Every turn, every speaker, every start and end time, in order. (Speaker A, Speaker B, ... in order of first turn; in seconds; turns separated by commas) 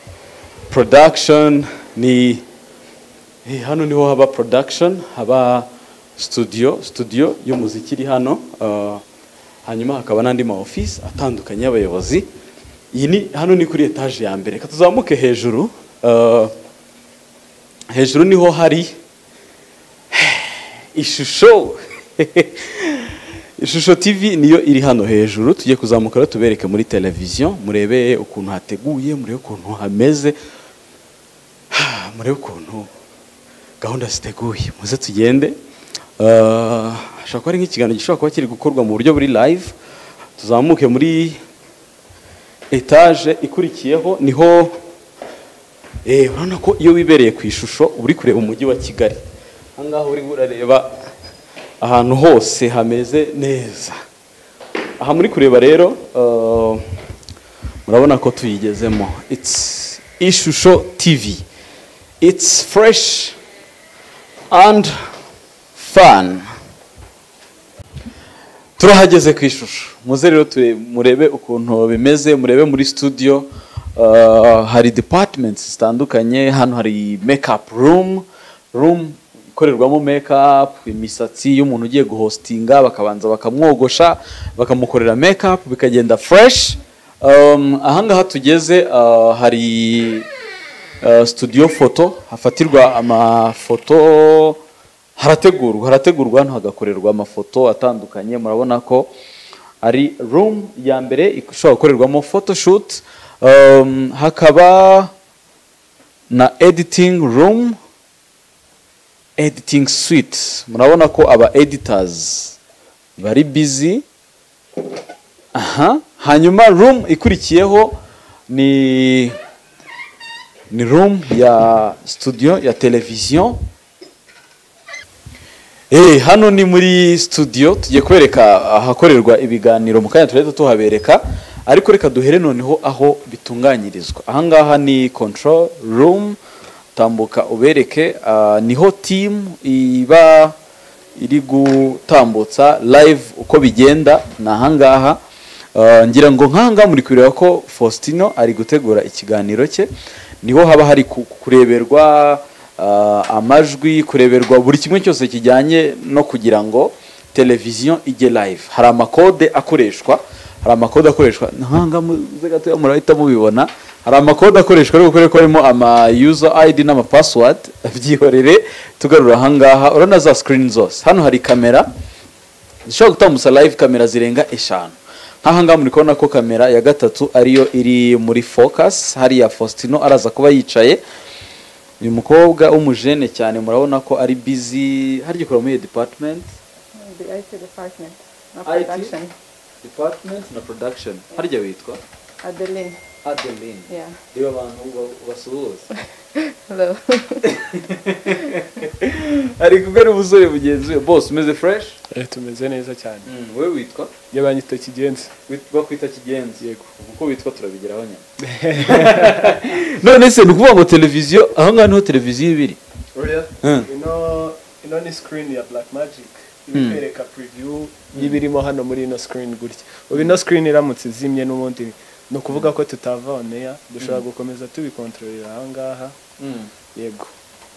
Speaker A: 0.7-2.4, Speaker A: 3.4-9.0, Speaker A: 9.7-12.3, Speaker A: 12.9-16.5, Speaker A: 17.9-18.9, Speaker A: 20.1-30.4, Speaker A: 31.7-32.9, Speaker A: 33.8-35.5, Speaker A: 36.2-39.7, Speaker A: 40.4-41.4, Speaker A: 42.7-44.8, Speaker A: 46.0-49.2, Speaker A: 49.8-51.0, Speaker A: 51.8-54.0, Speaker A: 55.0-56.8, Speaker A: 57.9-61.4, Speaker A: 62.2-63.4, Speaker A: 64.5-65.1, Speaker A: 65.7-66.5, Speaker A: 68.8-90.3, Speaker A: 91.0-94.6, Speaker A: 95.2-99.1, Speaker A: 99.8-105.1, Speaker A: 106.3-107.8, Speaker A: 109.4-112.6, Speaker A: 113.2-114.0, Speaker A: 115.5-118.0, Speaker A: 118.5-119.3, Speaker A: 120.7-123.6, Speaker A: 125.9-136.4, Speaker A: 136.9-140.6, Speaker A: 141.2-145.2, Speaker A: 145.7-149.9, Speaker A: 150.4-171.9, Speaker A: 172.8-181.0, Speaker A: 182.0-186.5, Speaker B: 186.9-189.3, Speaker A: 188.6-189.1, Speaker A: 189.8-192.0, Speaker B: 192.4-193.0, Speaker A: 193.2-195.8, Speaker B: 193.9-194.1, Speaker B: 196.3-197.5, Speaker A: 197.5-202.0, Speaker C: 202.1-203.3, Speaker A: 203.2-204.1, Speaker C: 204.3-205.3, Speaker A: 205.5-212.8, Speaker C: 208.4-209.6, Speaker C: 213.2-226.1, Speaker A: 213.6-213.9, Speaker A: 216.7-217.0, Speaker A: 226.4-226.7, Speaker C: 226.9-227.3